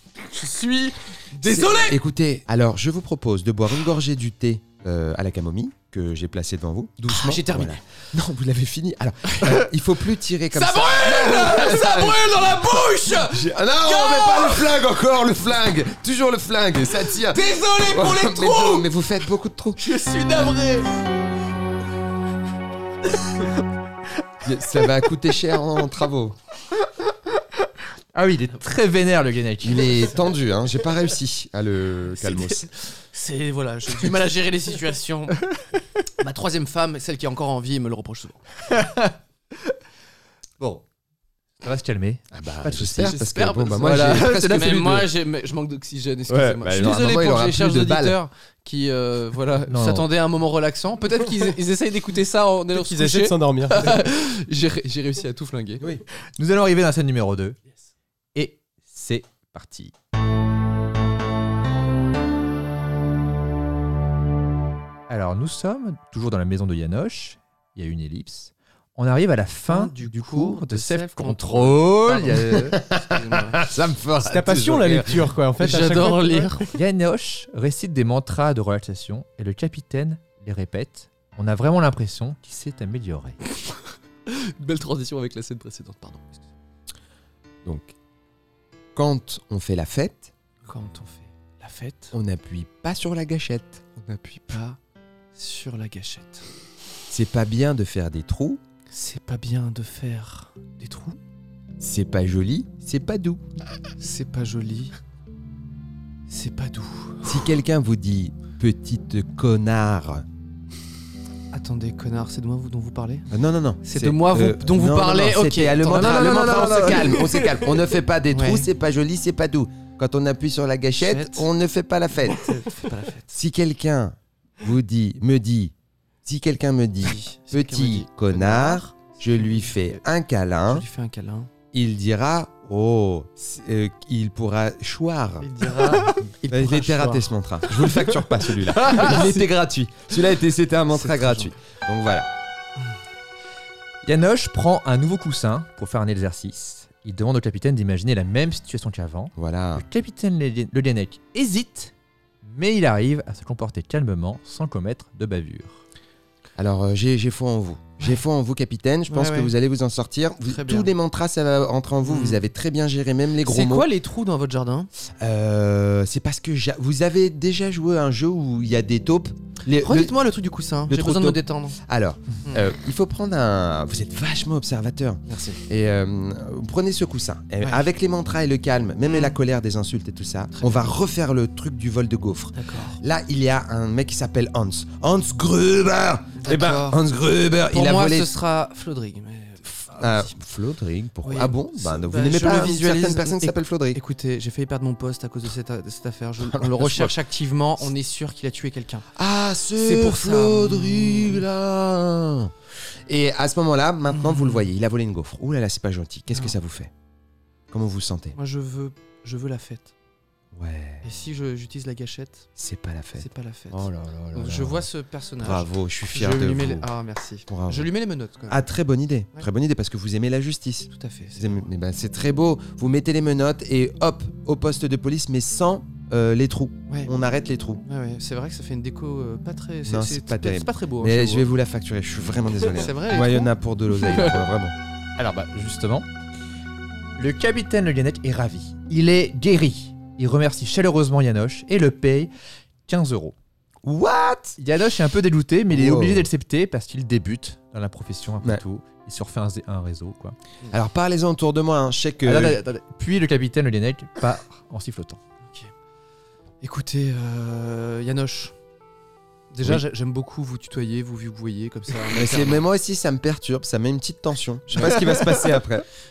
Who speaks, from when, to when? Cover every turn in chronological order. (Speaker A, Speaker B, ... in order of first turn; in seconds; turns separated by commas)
Speaker A: 0.2-2.0, Speaker B: 1.4-19.8, Speaker A: 7.1-7.8, Speaker A: 9.3-9.6, Speaker A: 10.5-14.8, Speaker A: 17.1-18.9, Speaker A: 19.8-20.9, Speaker B: 24.4-26.4, Speaker C: 28.1-30.0, Speaker B: 29.6-32.7, Speaker A: 32.2-35.4, Speaker A: 36.2-38.4, Speaker C: 38.7-39.1, Speaker C: 41.6-43.2, Speaker B: 42.3-45.0, Speaker A: 43.0-55.9, Speaker C: 43.8-45.1, Speaker B: 46.3-48.2, Speaker C: 49.7-50.1, Speaker D: 52.7-54.0, Speaker C: 56.4-57.6, Speaker C: 58.3-59.9, Speaker C: 65.1-72.8, Speaker A: 69.7-73.7, Speaker B: 72.5-75.3, Speaker D: 74.2-76.6, Speaker A: 75.6-76.7, Speaker C: 76.7-83.4, Speaker A: 84.2-86.3, Speaker B: 87.6-87.9, Speaker B: 88.9-90.3, Speaker A: 90.6-92.1, Speaker B: 92.1-94.5, Speaker A: 94.4-94.8, Speaker A: 95.3-96.5, Speaker B: 97.1-98.6, Speaker A: 98.9-101.2, Speaker B: 101.8-103.4, Speaker A: 104.0-104.9, Speaker A: 106.3-107.3, Speaker B: 107.2-110.2, Speaker A: 111.5-113.3, Speaker B: 113.3-122.5, Speaker A: 113.8-117.7, Speaker C: 115.9-117.0, Speaker A: 118.3-118.7, Speaker A: 121.0-121.5, Speaker A: 122.3-123.3, Speaker B: 123.3-125.7, Speaker B: 126.2-130.8, Speaker A: 127.0-130.0, Speaker A: 130.7-131.5, Speaker B: 131.7-142.3, Speaker A: 135.4-139.5, Speaker A: 140.9-141.5, Speaker C: 144.0-151.9, Speaker B: 149.3-149.8, Speaker C: 152.4-155.8, Speaker B: 156.6-163.9, Speaker A: 159.1-159.5, Speaker A: 160.5-160.9, Speaker A: 162.1-162.4, Speaker A: 163.4-164.9, Speaker B: 165.2-170.1, Speaker A: 169.8-171.8, Speaker B: 170.9-188.3, Speaker A: 175.3-175.6, Speaker A: 179.1-179.3, Speaker A: 180.6-180.9, Speaker A: 182.6-183.0, Speaker A: 186.4-187.0, Speaker A: 187.7-190.3, Speaker B: 189.8-194.0, Speaker A: 191.2-199.1, Speaker B: 196.4-197.2, Speaker B: 199.2-202.5, Speaker A: 199.8-201.4, Speaker B: 203.1-206.9, Speaker A: 204.1-204.6, Speaker B: 207.7-208.3, Speaker A: 208.3-209.9, Speaker B: 210.5-211.0, Speaker A: 211.0-212.5, Speaker B: 212.6-214.8, Speaker A: 213.2-218.6, Speaker B: 215.4-216.9, Speaker B: 217.5-217.9, Speaker B: 218.5-227.8, Speaker A: 220.9-221.7, Speaker A: 227.8-231.5, Speaker B: 229.8-234.7, Speaker A: 232.6-234.4, Speaker C: 235.2-236.1, Speaker C: 237.2-242.3, Speaker C: 242.9-243.3, Speaker B: 243.8-244.6, Speaker C: 244.6-250.3, Speaker B: 245.7-246.3, Speaker B: 250.7-252.6, Speaker C: 252.2-255.2, Speaker A: 256.6-258.5, Speaker A: 259.5-262.6, Speaker B: 262.1-265.9, Speaker A: 264.7-265.5